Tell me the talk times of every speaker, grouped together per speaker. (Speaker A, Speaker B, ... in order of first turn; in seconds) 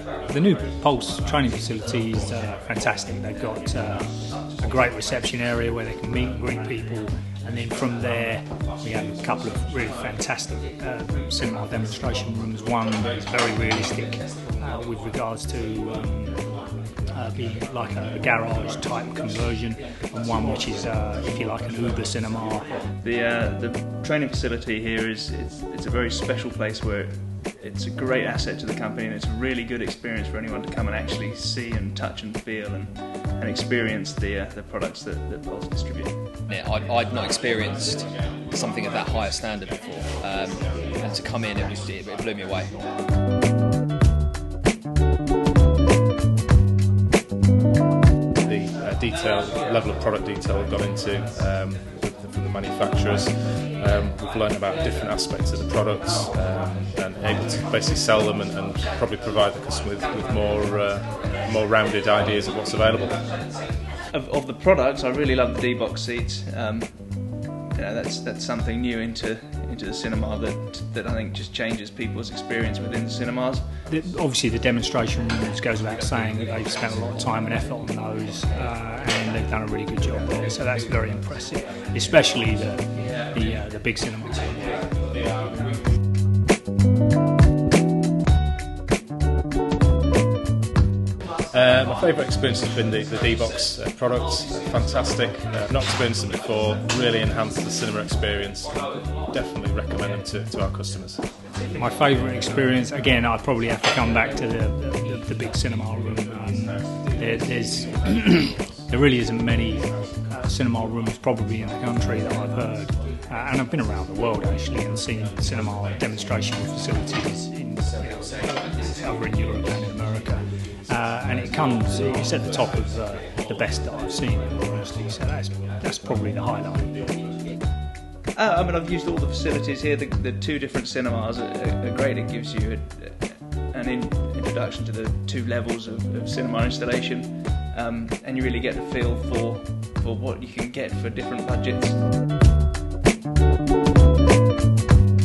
Speaker A: 0.3-16.4, 17.1-22.7, 73.9-84.8, 101.7-127.0
Speaker B: 23.0-36.3, 64.1-73.7, 128.3-142.0
Speaker C: 36.5-42.8
Speaker D: 48.5-63.2, 91.5-101.2